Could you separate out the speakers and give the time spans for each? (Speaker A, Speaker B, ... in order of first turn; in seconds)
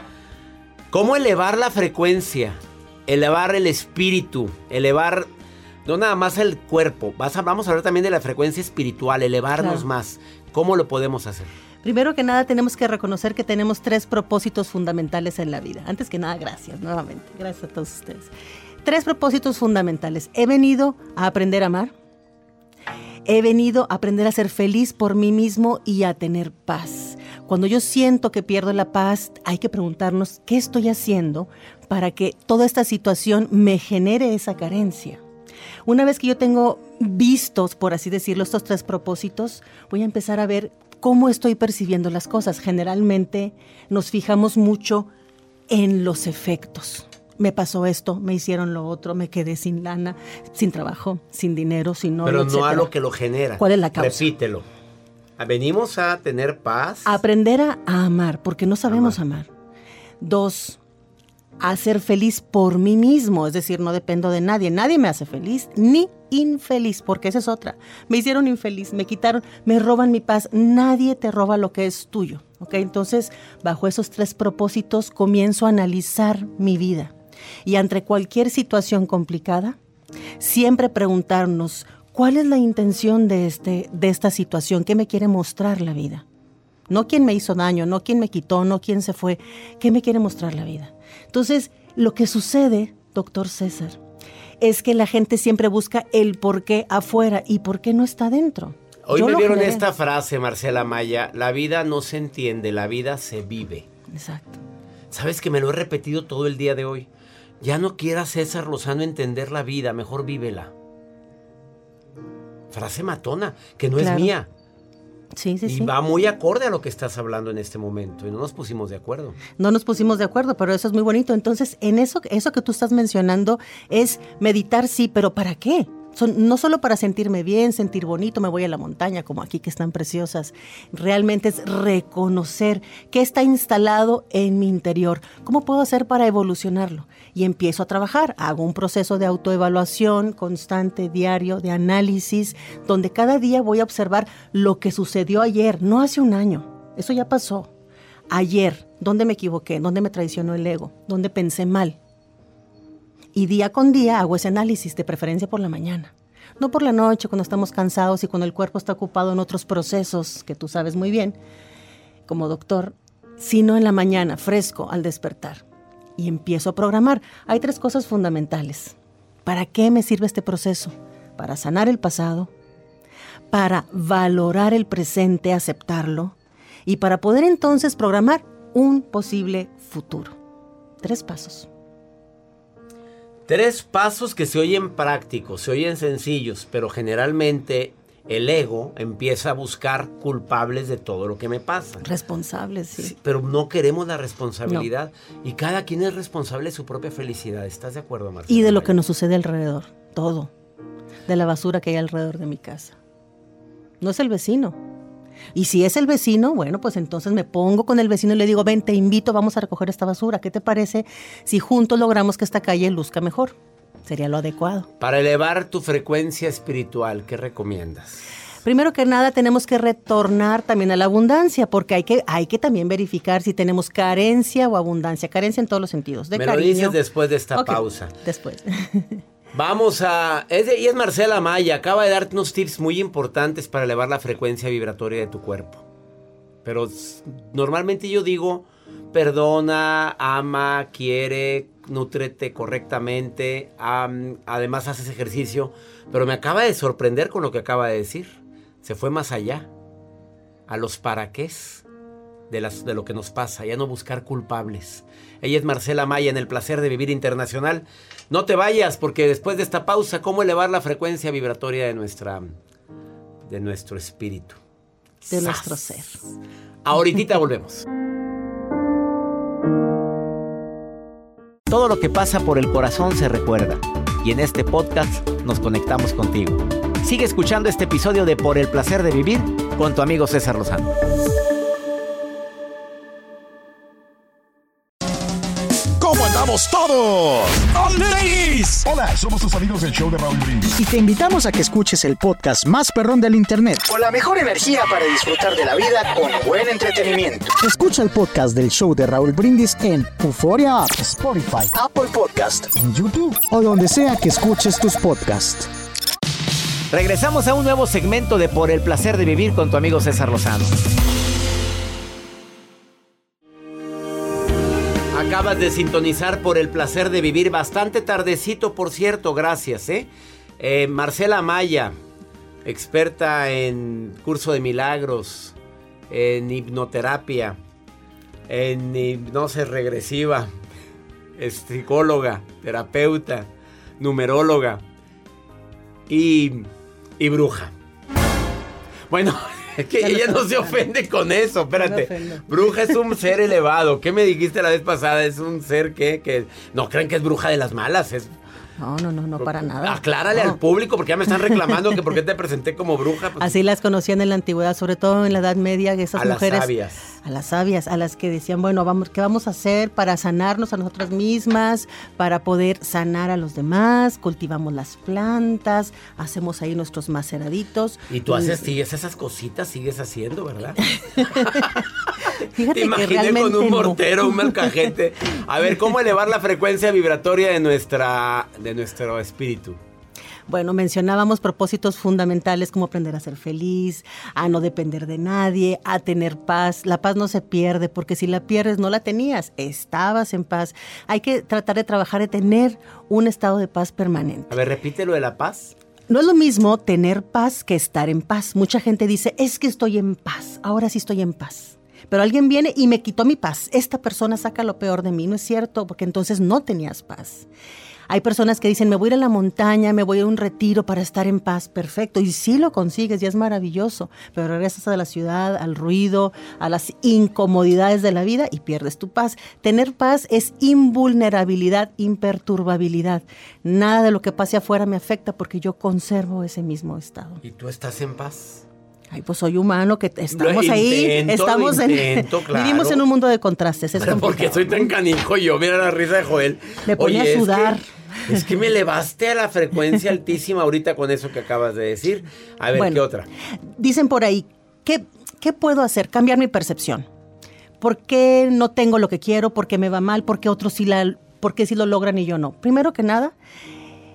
Speaker A: 0.9-5.3, 5.8-11.5, 52.2-54.6, 55.4-57.2, 58.9-59.2, 99.0-103.8, 105.1-107.1, 107.6-110.7, 112.7-114.5, 115.6-119.4, 183.5-192.0, 193.0-199.0, 215.0-218.3, 226.3-228.1, 229.5-235.8, 236.6-249.7, 250.7-251.8, 252.5-262.5, 263.5-264.6, 265.2-265.8, 266.8-267.8, 271.7-280.9, 306.9-310.8, 315.1-321.9, 322.6-325.6, 326.1-327.6, 328.5-330.5, 331.4-333.5, 334.0-334.8, 336.1-337.7, 339.1-348.3, 349.4-353.6, 356.1-357.1, 368.1-370.8, 372.7-379.8, 394.5-395.7, 427.4-428.6, 430.3-433.0, 433.9-443.3
Speaker B: 9.6-9.8, 11.8-18.3, 18.8-21.9, 23.2-35.2, 35.8-45.1, 45.7-52.9, 53.6-54.3, 57.0-59.5, 60.2-60.8, 61.6-79.8, 80.4-86.2, 86.9-94.0, 94.6-99.8, 104.1-104.6, 114.0-114.3, 115.3-115.9, 119.6-147.7, 148.3-152.0, 153.3-161.4, 162.3-165.6, 166.2-172.5, 173.5-176.3, 176.8-180.4, 181.0-181.7, 192.0-193.1, 198.5-200.5, 201.3-203.0, 204.0-204.8, 205.5-214.9, 218.6-227.0, 227.5-229.2, 265.3-266.2, 340.0-340.8, 341.7-342.4, 348.8-350.6, 353.4-368.6, 370.9-371.8, 372.5-374.7, 380.5-394.6, 396.1-407.5, 408.1-427.4, 429.1-434.9, 436.8-437.8, 442.7-443.0, 443.6-447.1, 447.8-453.3
Speaker C: 286.0-286.9, 288.9-290.7
Speaker D: 290.8-305.7